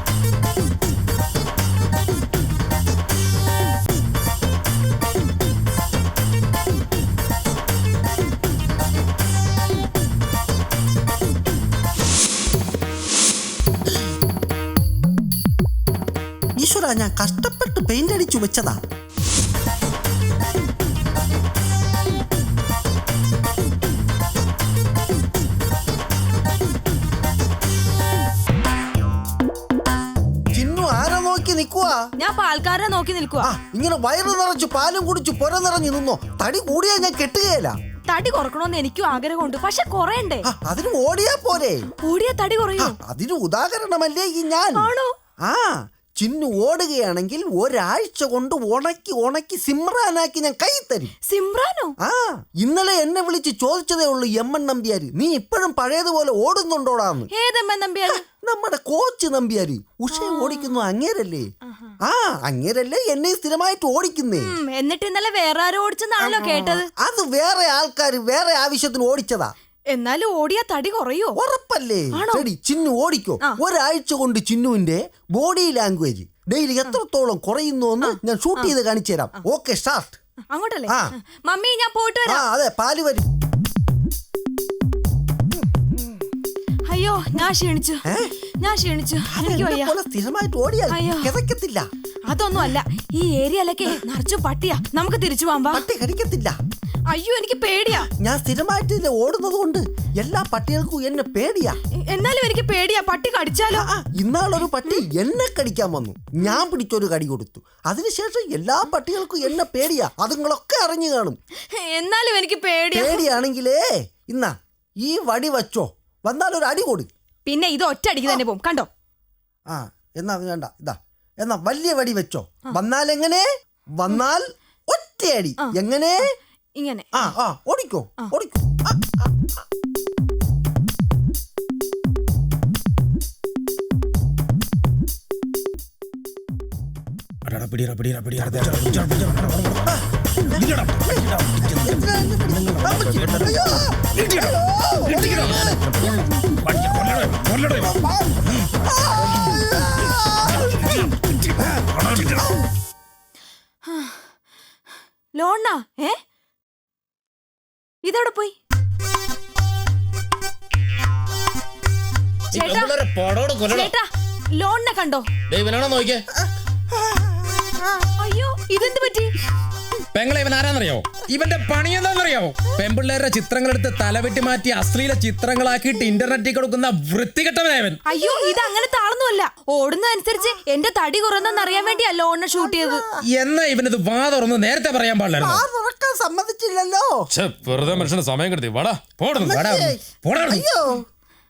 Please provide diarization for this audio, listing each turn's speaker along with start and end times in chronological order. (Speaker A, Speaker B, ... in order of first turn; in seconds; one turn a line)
Speaker A: 16.6-18.8
Speaker A: 30.6-32.0
Speaker B: 32.2-33.5
Speaker A: 33.4-37.8
Speaker B: 38.1-40.4
Speaker A: 40.4-41.8
Speaker B: 42.0-43.0
Speaker A: 42.8-44.9
Speaker B: 44.8-45.1
Speaker A: 45.5-51.1
Speaker B: 51.3-52.0
Speaker A: 52.0-57.3
Speaker B: 57.3-58.2
Speaker A: 58.1-61.5
Speaker B: 60.1-60.7
Speaker A: 62.0-64.5
Speaker B: 64.4-66.9
Speaker A: 66.2-69.5
Speaker B: 69.9-71.4
Speaker A: 71.4-80.2
Speaker B: 72.2-72.5
Speaker B: 78.0-78.7
Speaker B: 80.5-82.4
Speaker A: 82.3-83.2
Speaker B: 86.9-88.0
Speaker B: 88.6-89.9
Speaker A: 89.3-91.9
Speaker B: 90.9-91.3
Speaker B: 92.3-95.8
Speaker A: 95.7-96.6
Speaker B: 97.1-98.1
Speaker A: 98.2-101.8
Speaker B: 102.1-103.8
Speaker A: 103.7-111.4
Speaker B: 111.7-113.2
Speaker A: 112.9-117.1
Speaker B: 117.5-118.9
Speaker A: 119.7-123.4
Speaker A: 124.0-126.2
Speaker B: 126.8-127.3
Speaker A: 127.2-129.3
Speaker C: 137.5-139.9
Speaker A: 139.9-146.0
Speaker C: 140.5-141.9
Speaker C: 142.6-143.7
Speaker C: 144.2-145.7
Speaker C: 146.7-147.9
Speaker A: 148.8-150.8
Speaker B: 153.9-154.2
Speaker B: 155.3-156.2
Speaker B: 158.0-158.6
Speaker B: 162.5-163.0
Speaker C: 162.5-163.9
Speaker B: 163.7-164.1
Speaker B: 164.6-165.3
Speaker C: 165.5-166.3
Speaker B: 168.2-169.3
Speaker C: 170.2-178.0
Speaker B: 178.1-183.0
Speaker A: 182.6-183.0
Speaker C: 183.3-185.6
Speaker A: 185.4-187.1
Speaker C: 187.3-190.6
Speaker A: 189.4-191.0